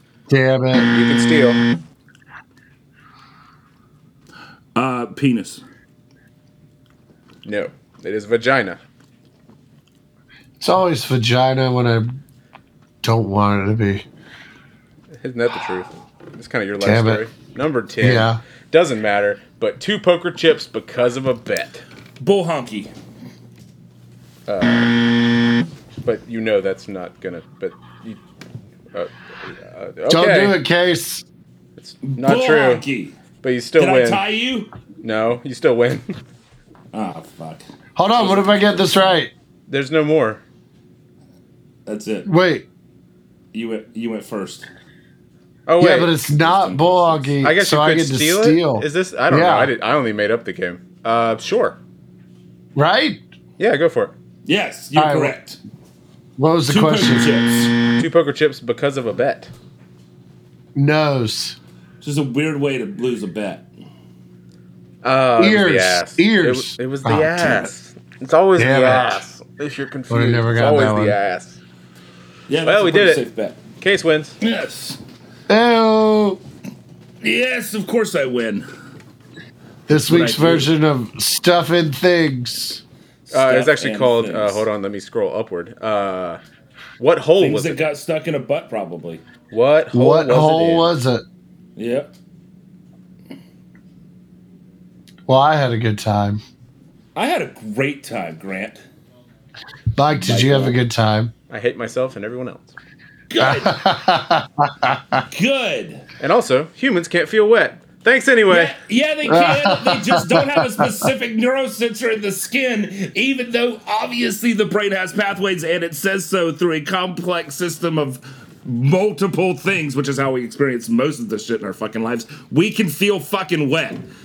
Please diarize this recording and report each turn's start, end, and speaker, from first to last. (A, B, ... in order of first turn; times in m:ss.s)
0:00.3-0:00.9 A
0:00.9-0:01.6 B
0:04.7-0:05.6 C
0:07.4-0:08.8 B
0:10.6-0:12.2 A
0:13.0-0:14.0 A
0:15.2-0:21.8 B
0:16.8-0:17.2 A
0:18.0-0:18.4 A
0:22.2-0:22.9 C
0:24.5-0:25.0 B
0:26.0-0:28.2 B
0:28.9-0:30.6 B
0:30.1-0:31.2 A
0:31.8-0:32.8 B
0:32.0-0:33.2 C
0:33.4-0:34.2 B
0:33.8-0:34.7 C
0:35.0-0:36.1 B
0:36.9-0:37.6 C
0:38.0-0:39.3 A
0:38.1-0:39.2 C
0:39.7-0:40.4 B
0:41.8-0:42.3 C
0:42.2-0:42.6 A
0:43.5-0:44.7 C
0:45.7-0:46.1 B
0:45.8-0:49.7 A
0:46.4-0:47.3 C
0:47.4-0:51.8 B
0:52.7-0:53.2 A
0:53.6-0:54.1 B
0:54.4-0:55.6 C
0:54.9-0:55.4 A
0:56.4-0:57.4 A
0:56.7-0:57.7 C
0:58.0-0:59.5 B
1:00.7-1:01.6 A
1:02.0-1:03.6 C
1:05.0-1:11.6 B
1:05.4-1:07.7 A
1:08.6-1:09.2 A
1:10.1-1:11.2 A
1:12.5-1:13.6 C
1:12.6-1:13.2 B
1:13.8-1:14.4 B
1:14.4-1:15.0 C
1:15.5-1:16.4 A
1:17.2-1:18.6 C
1:19.9-1:22.8 A
1:19.9-1:20.7 C
1:23.3-1:24.6 C
1:23.3-1:26.4 B
1:27.0-1:27.8 B
1:27.4-1:29.2 C
1:29.5-1:30.9 B
1:29.9-1:31.2 A
1:31.8-1:32.1 C
1:35.3-1:36.4 A
1:37.1-1:38.8 C
1:40.0-1:41.3 A
1:40.2-1:40.8 C
1:41.5-1:42.7 B
1:43.3-1:43.7 C
1:43.4-1:45.2 A
1:45.3-1:46.0 C
1:46.2-1:48.7 B
1:48.5-2:04.0 C
1:49.2-1:51.0 A